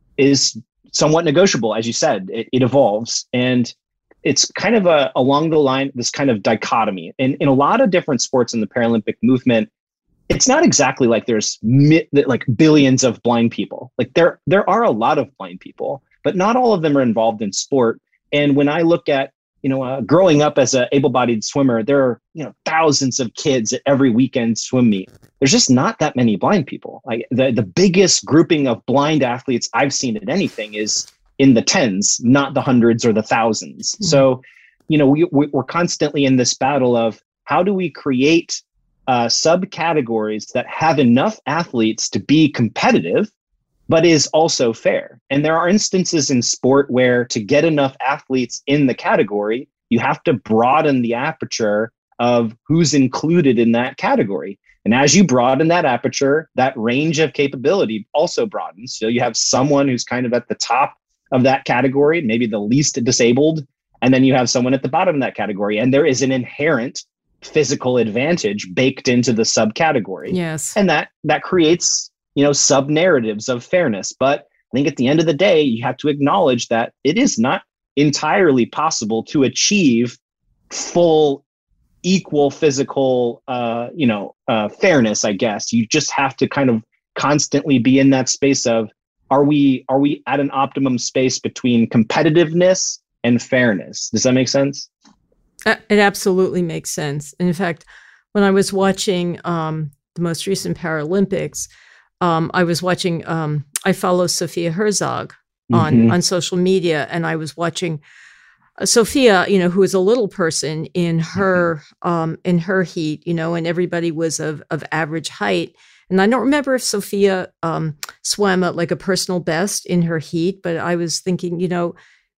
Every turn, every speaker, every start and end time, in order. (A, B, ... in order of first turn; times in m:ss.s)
0:00.2-0:03.7 A
0:04.2-0:09.7 A
0:10.3-0:43.3 A
0:43.9-1:20.2 A
1:10.3-1:10.8 B
1:20.7-1:21.4 A
1:22.0-1:34.9 A
1:35.7-1:41.7 B
1:42.2-1:48.0 B
1:45.7-1:46.1 A
1:48.8-2:01.9 B